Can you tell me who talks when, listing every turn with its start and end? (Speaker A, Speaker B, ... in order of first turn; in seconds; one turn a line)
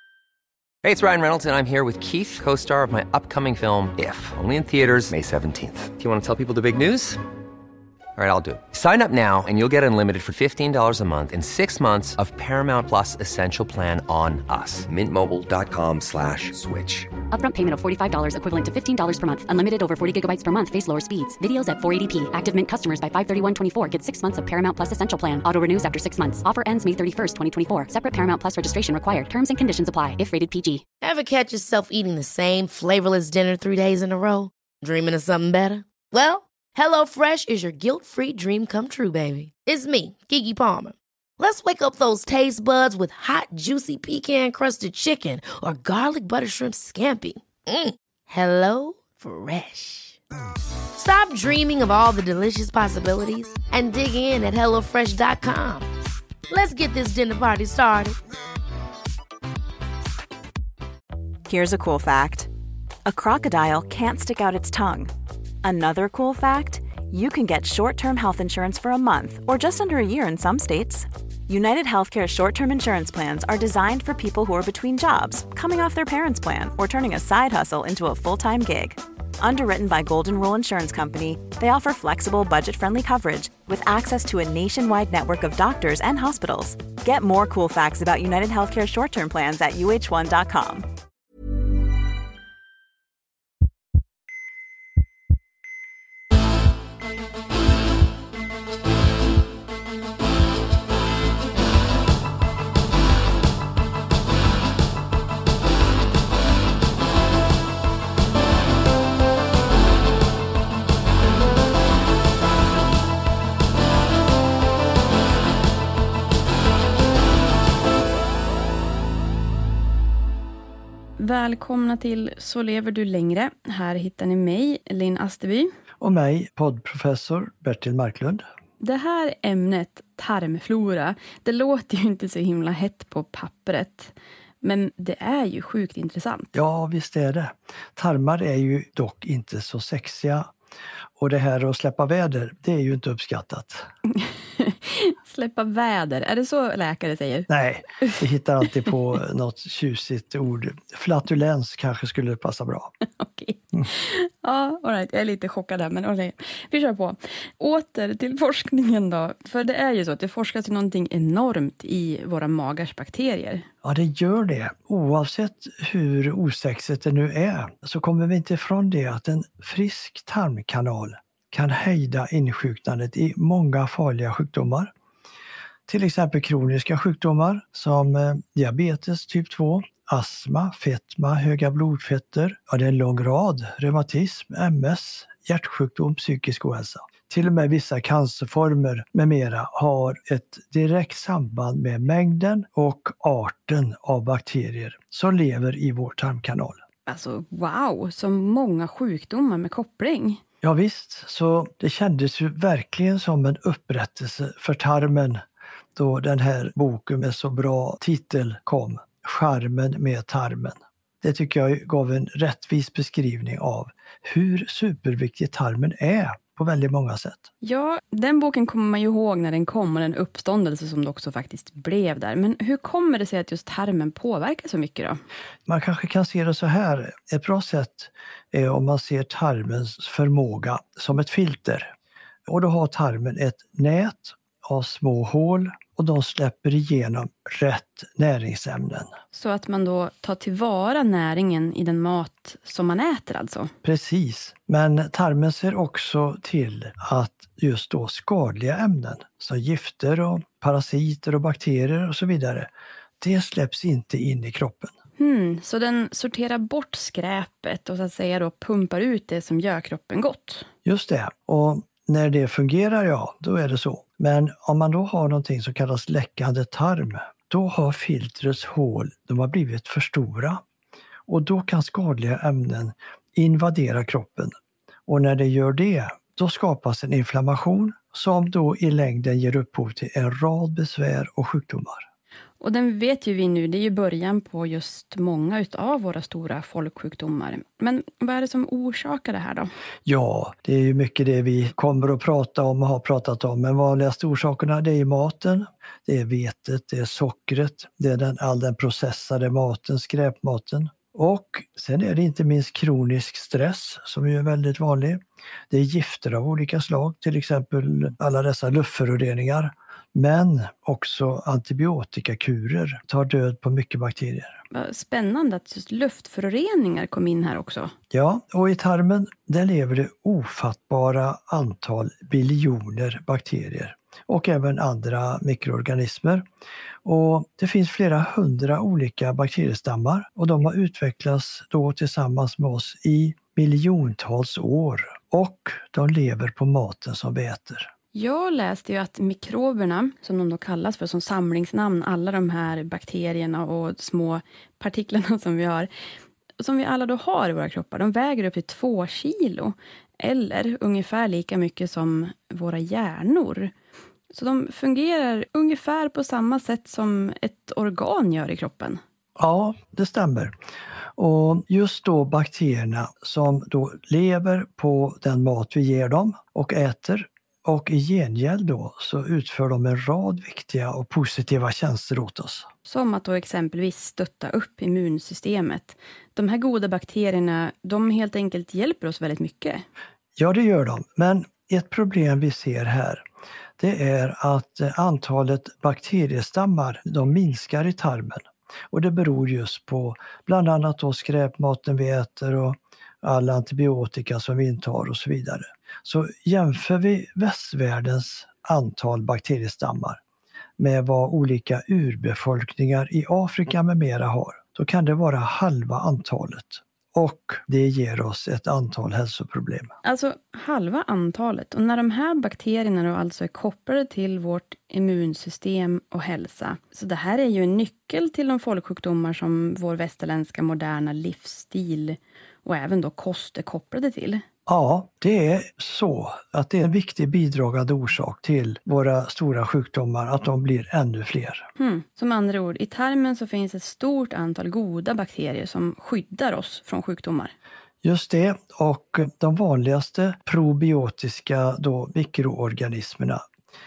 Speaker A: 0.8-7.2
Speaker A: 8.2-17.1
Speaker B: 17.3-30.8
Speaker C: 31.0-50.2
Speaker C: 50.9-55.9
Speaker C: 56.5-58.2
Speaker D: 61.5-62.5
Speaker D: 63.1-65.1
Speaker D: 65.6-90.8
Speaker E: 121.2-125.7
Speaker F: 126.0-128.4
Speaker E: 128.8-136.6
Speaker F: 136.5-140.5
Speaker F: 141.2-143.9
Speaker E: 144.2-147.5
Speaker F: 147.5-152.9
Speaker E: 153.2-163.7
Speaker F: 163.8-174.9
Speaker F: 175.9-196.8
Speaker E: 197.1-200.4
Speaker F: 200.6-205.4
Speaker F: 205.9-217.5
Speaker E: 217.6-225.2
Speaker F: 225.7-231.9
Speaker F: 232.5-239.1
Speaker E: 239.3-243.7
Speaker F: 243.8-252.7
Speaker F: 253.2-254.9
Speaker E: 255.2-260.7
Speaker F: 260.8-270.6
Speaker F: 271.3-274.5
Speaker F: 275.1-282.1
Speaker E: 282.6-289.7
Speaker F: 290.1-314.6
Speaker E: 314.7-317.9
Speaker F: 318.1-326.4
Speaker F: 327.0-337.9
Speaker E: 338.1-345.9
Speaker E: 346.6-353.7
Speaker E: 354.3-359.0
Speaker F: 359.4-360.5
Speaker F: 361.2-372.7
Speaker E: 372.8-379.9
Speaker F: 380.4-383.2
Speaker F: 383.8-400.2
Speaker F: 400.8-409.9
Speaker E: 410.0-424.4
Speaker F: 424.7-431.7
Speaker E: 431.8-437.5
Speaker F: 438.0-443.4